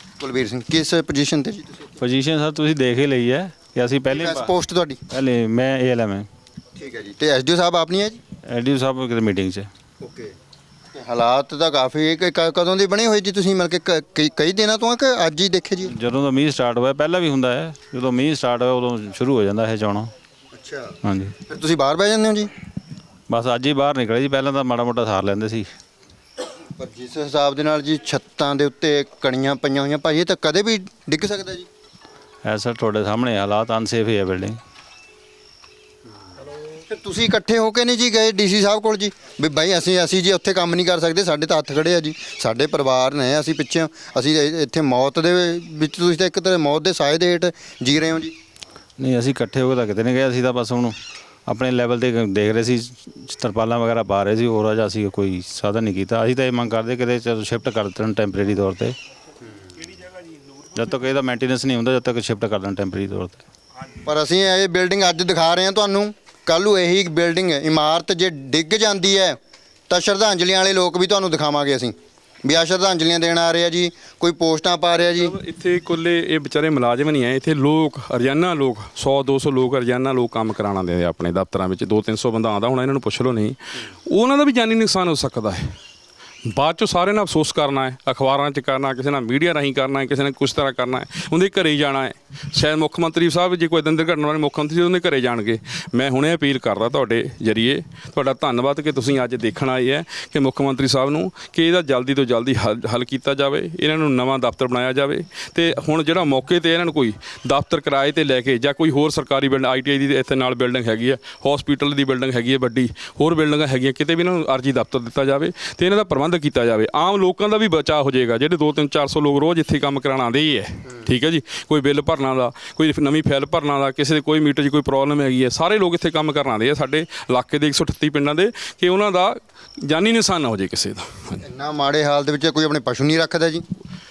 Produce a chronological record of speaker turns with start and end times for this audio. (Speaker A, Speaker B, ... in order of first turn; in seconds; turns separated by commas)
Speaker A: 0.2-1.9, Speaker B: 2.0-4.5, Speaker A: 4.1-5.0, Speaker B: 5.1-6.3, Speaker A: 6.8-8.2, Speaker B: 8.4-9.7, Speaker A: 10.0-10.3, Speaker A: 10.9-15.9, Speaker B: 15.8-20.1, Speaker A: 20.5-20.9, Speaker B: 21.0-21.3, Speaker A: 21.5-22.5, Speaker B: 23.3-25.7, Speaker A: 26.8-31.7, Speaker B: 32.4-34.6, Speaker A: 36.7-48.3, Speaker B: 49.0-51.0, Speaker B: 51.5-58.9, Speaker B: 60.7-63.4, Speaker A: 64.0-69.4, Speaker A: 69.9-75.3, Speaker C: 75.2-83.6, Speaker C: 84.1-85.7, Speaker C: 86.5-131.4, Speaker A: 131.4-133.6